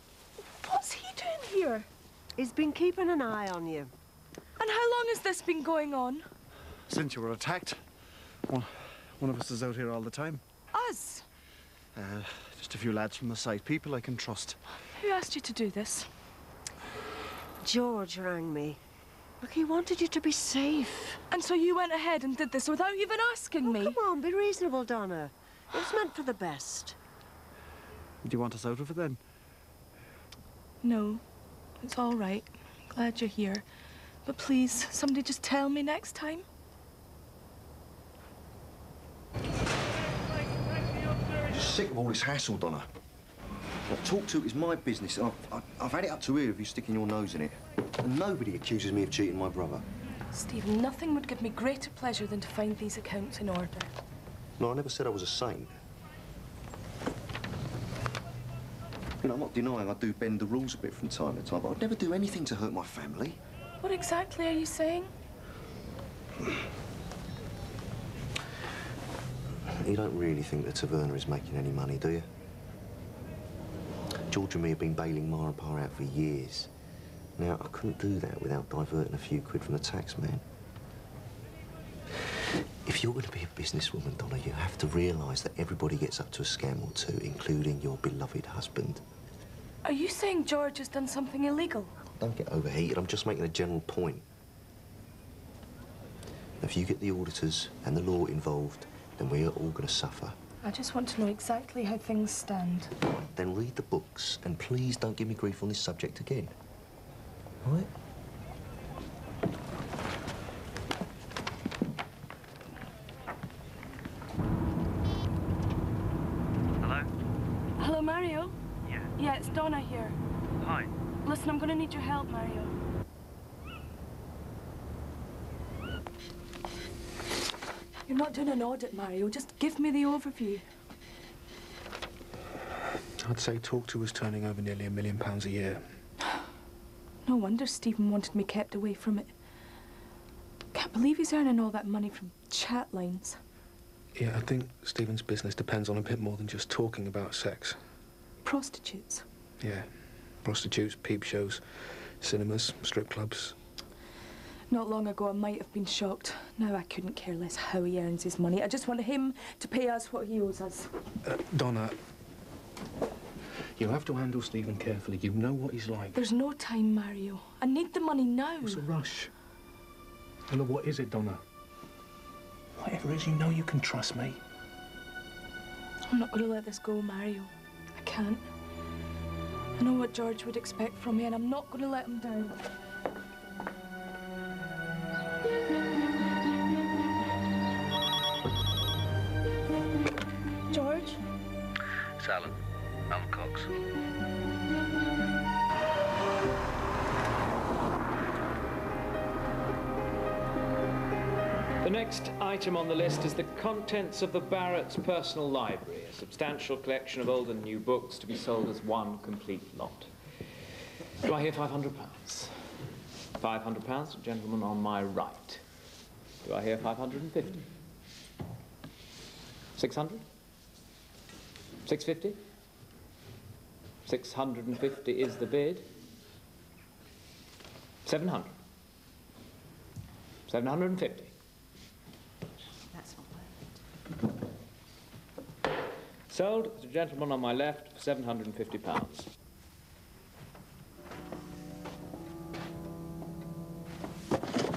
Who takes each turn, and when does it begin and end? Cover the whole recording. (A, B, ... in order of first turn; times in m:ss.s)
0:00.6-0:01.9 A
0:02.4-0:03.9 B
0:04.6-0:06.2 A
0:06.9-0:07.8 C
0:08.5-0:10.4 C
0:10.7-0:11.2 A
0:11.9-0:14.6 C
0:14.9-0:16.1 A
0:17.6-0:18.8 B
0:19.4-0:21.2 B
0:21.3-0:24.0 A
0:23.6-0:27.0 B
0:28.2-0:29.2 C
0:30.8-0:31.2 A
0:31.8-0:33.6 A
0:34.2-0:36.4 A
0:41.5-0:42.9 D
0:43.9-0:49.8 D
0:50.3-0:53.9 A
0:54.6-0:55.7 D
0:59.2-1:03.4 D
1:03.8-1:05.1 A
1:09.8-1:12.3 D
1:14.3-1:16.7 D
1:17.4-1:20.4 D
1:22.8-1:29.0 D
1:29.8-1:31.9 A
1:32.2-1:34.2 D
1:36.6-1:40.4 D
1:40.6-1:42.9 A
1:43.3-1:46.5 D
1:57.8-1:58.6 A
1:59.2-2:00.2 A
2:01.2-2:02.7 A
2:08.1-2:10.6 A
2:13.2-2:15.8 E
2:17.2-2:19.3 A
2:20.7-2:23.4 A
2:24.2-2:27.8 E
2:28.4-2:29.2 A
2:29.6-2:29.9 E
2:30.4-2:33.5 E
2:34.7-2:40.9 A
2:41.2-2:41.9 E
2:43.8-2:46.1 E
2:46.1-2:48.8 A
2:48.7-2:49.3 E
2:50.5-2:51.4 E
2:52.8-2:54.4 E
2:56.1-2:58.5 A
2:59.8-3:02.6 A
3:10.7-3:11.2 A
3:21.8-3:30.1 F
3:31.2-3:32.5 F
3:33.4-3:35.6 F
3:36.4-3:37.6 F
3:39.8-3:40.2 F
3:41.8-3:42.4 F
3:44.0-3:45.9 F
3:48.0-3:48.5 F
3:50.5-3:51.3 F
3:56.3-3:59.3 F